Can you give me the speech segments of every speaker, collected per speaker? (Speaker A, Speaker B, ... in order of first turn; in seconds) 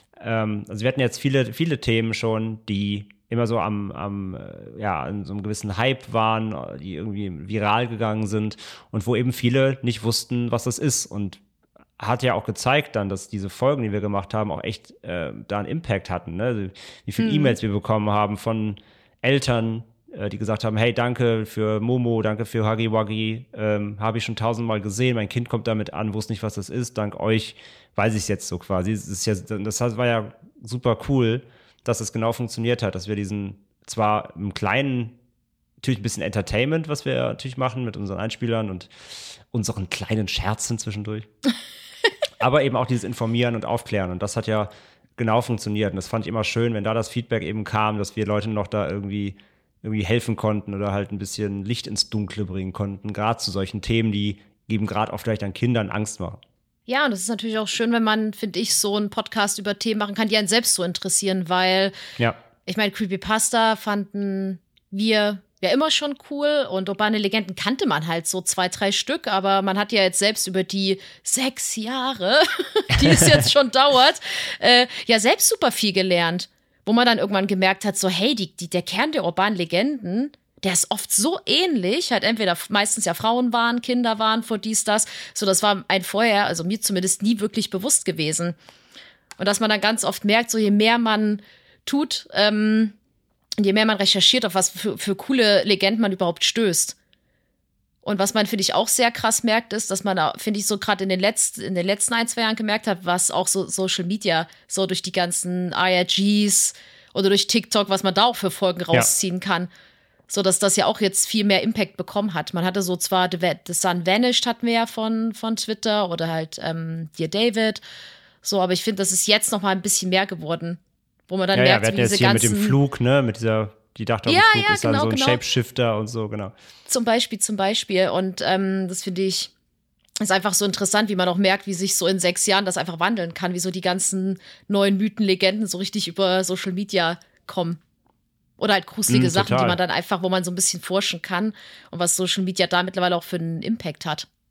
Speaker A: 0.1-11.4, 12.0-35.2, 35.8-38.9, 39.5-41.3, 42.4-56.4, 73.0-73.4, 121.5-126.5, 139.1-139.8
Speaker B: 17.2-17.6, 56.9-61.9, 62.6-88.5, 89.4-92.9, 93.6-97.0, 98.0-109.7, 110.3-117.8, 118.4-122.8, 124.2-125.4, 126.8-129.5, 130.2-137.8, 138.6-144.3